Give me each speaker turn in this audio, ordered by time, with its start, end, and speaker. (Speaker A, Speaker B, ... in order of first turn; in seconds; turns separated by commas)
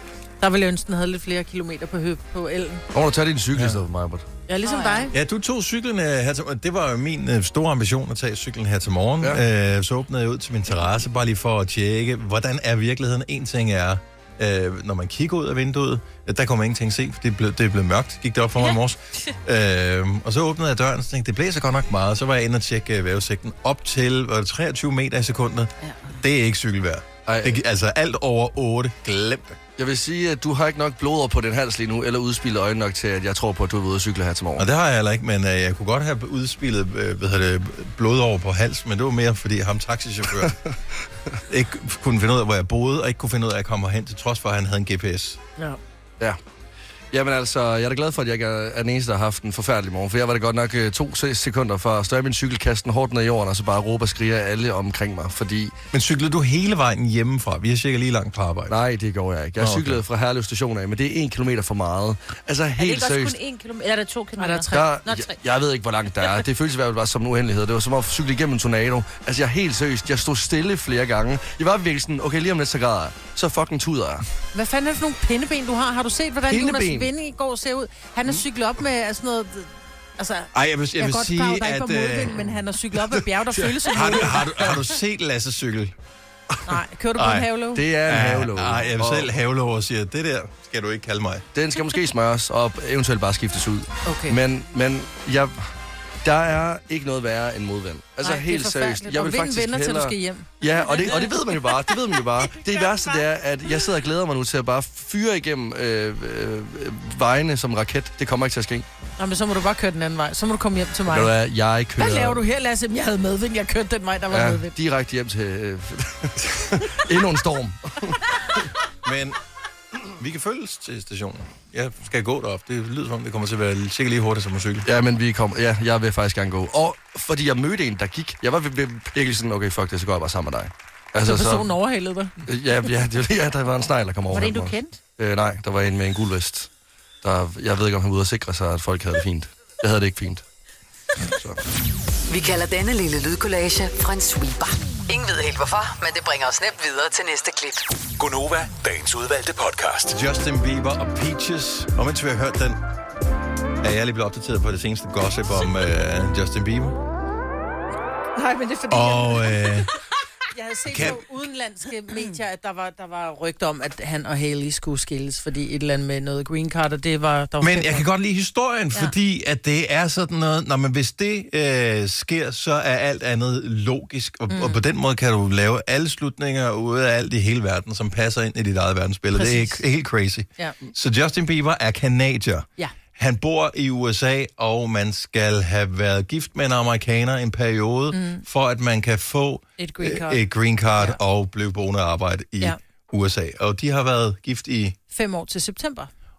Speaker A: 0.4-2.8, Speaker B: 2.9-4.2, Speaker C: 3.5-3.8, Speaker A: 4.5-5.1, Speaker D: 4.6-5.1, Speaker C: 5.1-29.6, Speaker D: 18.6-19.3, Speaker D: 25.8-26.1, Speaker B: 27.2-27.6, Speaker B: 29.8-34.6, Speaker C: 34.6-40.6, Speaker C: 41.5-45.4, Speaker B: 47.1-55.7, Speaker C: 55.9-58.8, Speaker B: 58.7-63.4, Speaker C: 59.6-60.0, Speaker D: 62.8-65.4, Speaker A: 64.4-64.9, Speaker B: 64.7-74.2, Speaker A: 74.5-84.5, Speaker B: 76.4-77.1, Speaker C: 80.5-82.6, Speaker C: 83.9-85.9, Speaker B: 84.3-84.8, Speaker A: 86.6-87.8, Speaker C: 87.2-91.5, Speaker B: 87.7-89.3, Speaker B: 91.5-95.7, Speaker A: 94.0-94.4, Speaker B: 96.2-108.8, Speaker A: 98.2-100.5, Speaker D: 100.8-101.3, Speaker D: 102.6-103.2, Speaker A: 109.2-111.3, Speaker B: 111.1-112.4, Speaker A: 112.0-114.7, Speaker B: 114.3-118.6, Speaker C: 119.0-119.4, Speaker C: 120.2-124.9, Speaker B: 124.8-131.7, Speaker A: 131.2-132.4, Speaker B: 132.4-136.7, Speaker D: 134.3-135.0, Speaker A: 134.3-134.7, Speaker B: 137.2-140.4, Speaker B: 141.2-141.6, Speaker E: 142.3-147.8, Speaker F: 148.2-150.2, Speaker C: 150.1-152.8, Speaker C: 153.8-156.9, Speaker A: 158.3-159.8, Speaker C: 158.9-159.9, Speaker A: 160.5-168.0, Speaker C: 160.9-161.2, Speaker C: 167.6-195.0, Speaker A: 174.5-174.8, Speaker A: 179.3-179.8, Speaker A: 188.1-188.4, Speaker A: 189.8-190.4, Speaker A: 195.1-196.1